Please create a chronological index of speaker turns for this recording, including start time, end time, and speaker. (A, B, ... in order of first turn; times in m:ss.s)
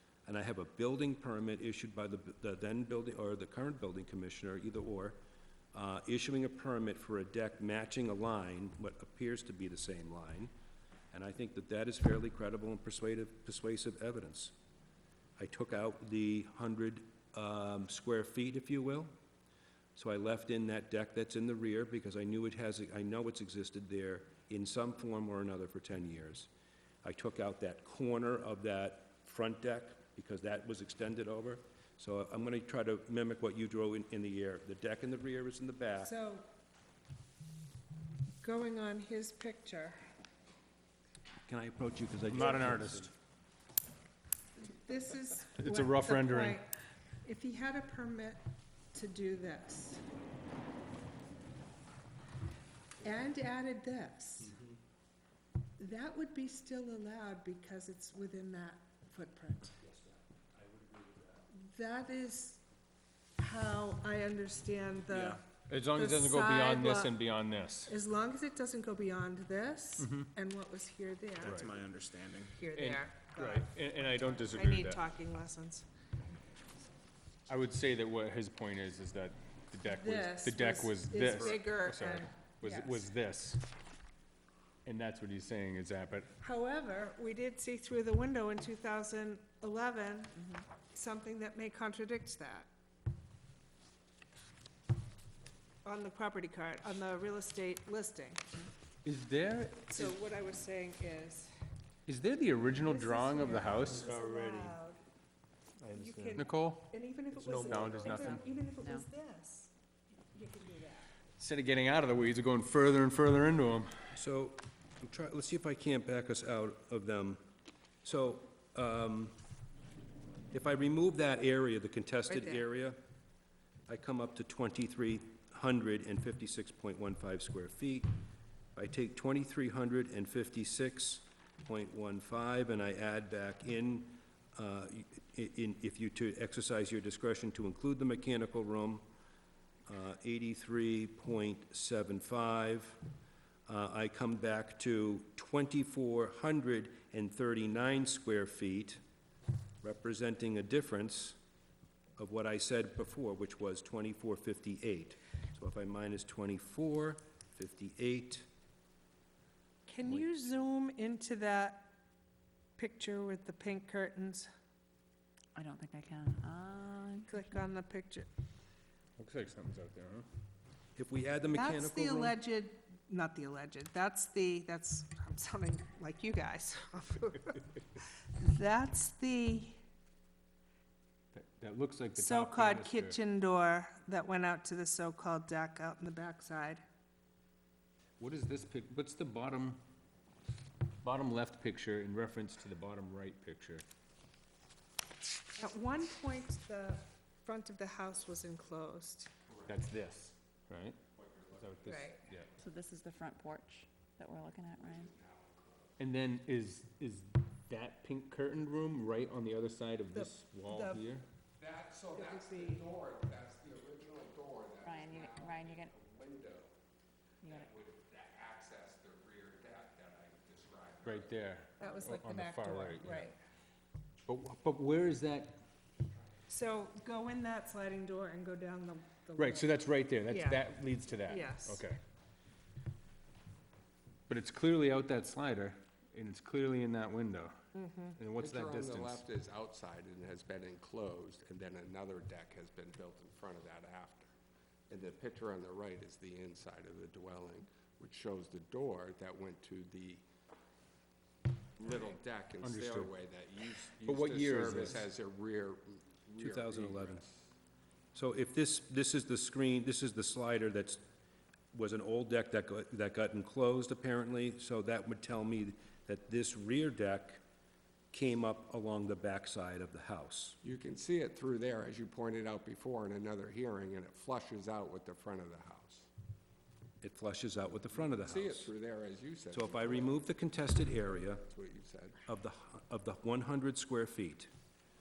0:00.2-0:05.2 A
0:05.7-0:10.5 A
0:11.1-0:14.5 A
0:15.4-0:19.1 A
0:19.9-0:26.5 A
0:27.0-0:36.1 A
0:36.0-0:36.4 B
0:38.4-0:40.0 B
0:41.5-0:43.1 A
0:42.3-0:43.1 C
0:44.6-0:46.7 B
0:45.5-0:46.6 C
0:47.2-0:48.4 B
0:48.9-0:50.0 B
0:53.0-0:54.6 B
0:55.8-0:59.8 B
1:01.5-1:02.6 B
1:03.4-1:05.4 B
1:05.1-1:05.4 D
1:05.7-1:07.9 C
1:05.9-1:07.1 B
1:07.8-1:11.6 B
1:10.0-1:10.3 C
1:11.4-1:11.8 C
1:11.5-1:12.6 D
1:12.5-1:15.8 B
1:12.7-1:15.0 C
1:17.5-1:23.6 C
1:19.8-1:23.0 B
1:24.8-1:26.3 C
1:26.4-1:32.7 B
1:35.8-1:38.6 B
1:39.0-1:40.1 C
1:39.9-1:41.5 B
1:42.1-1:44.1 C
1:42.8-1:45.0 B
1:44.0-1:44.7 D
1:45.8-1:46.5 D
1:45.9-1:49.7 B
1:46.4-1:46.9 C
1:47.3-1:48.3 D
1:47.5-1:48.4 C
1:48.8-1:49.0 E
1:50.3-1:51.1 B
1:51.4-1:54.0 C
1:54.1-1:57.4 A
1:58.0-1:59.4 A
2:00.5-2:03.0 A
2:02.3-2:02.6 B
2:03.9-2:08.1 A
2:08.7-2:19.0 A
2:19.9-2:23.0 A
2:23.7-2:29.0 A
2:29.8-2:31.4 A
2:32.2-2:38.4 A
2:39.9-2:41.9 B
2:42.8-2:44.5 B
2:45.6-2:47.7 E
2:47.3-2:48.3 B
2:49.2-2:50.3 C
2:51.0-2:52.4 A
2:51.5-2:59.8 B
3:01.3-3:03.2 C
3:02.2-3:06.8 B
3:08.2-3:09.8 C
3:11.0-3:13.8 C
3:15.5-3:19.3 B
3:19.6-3:21.0 C
3:21.2-3:22.1 F
3:21.5-3:22.5 C
3:21.9-3:22.2 B
3:22.6-3:25.1 E
3:24.8-3:26.0 F
3:26.0-3:31.2 C
3:30.1-3:31.0 B
3:31.6-3:36.7 F
3:32.2-3:32.8 B
3:34.8-3:35.9 E
3:37.4-3:37.7 E
3:37.4-3:41.5 F
3:41.0-3:43.3 C
3:41.8-3:43.4 B
3:44.3-3:45.6 C
3:46.5-3:49.8 B
3:49.4-3:52.0 C
3:50.3-3:50.6 B
3:51.2-3:51.8 B
3:54.3-3:57.6 C
3:57.7-3:58.2 B
3:58.1-3:59.2 C
3:58.4-4:04.3 F
4:04.9-4:10.2 F
4:11.8-4:17.4 F
4:12.6-4:13.1 C
4:14.0-4:15.1 C
4:16.4-4:17.2 A
4:18.1-4:21.0 A
4:21.7-4:27.4 A
4:28.1-4:30.6 A
4:30.6-4:36.1 F
4:37.0-4:38.7 A
4:37.9-4:40.2 F
4:39.5-4:41.4 A
4:41.4-4:42.2 F
4:42.3-4:44.5 A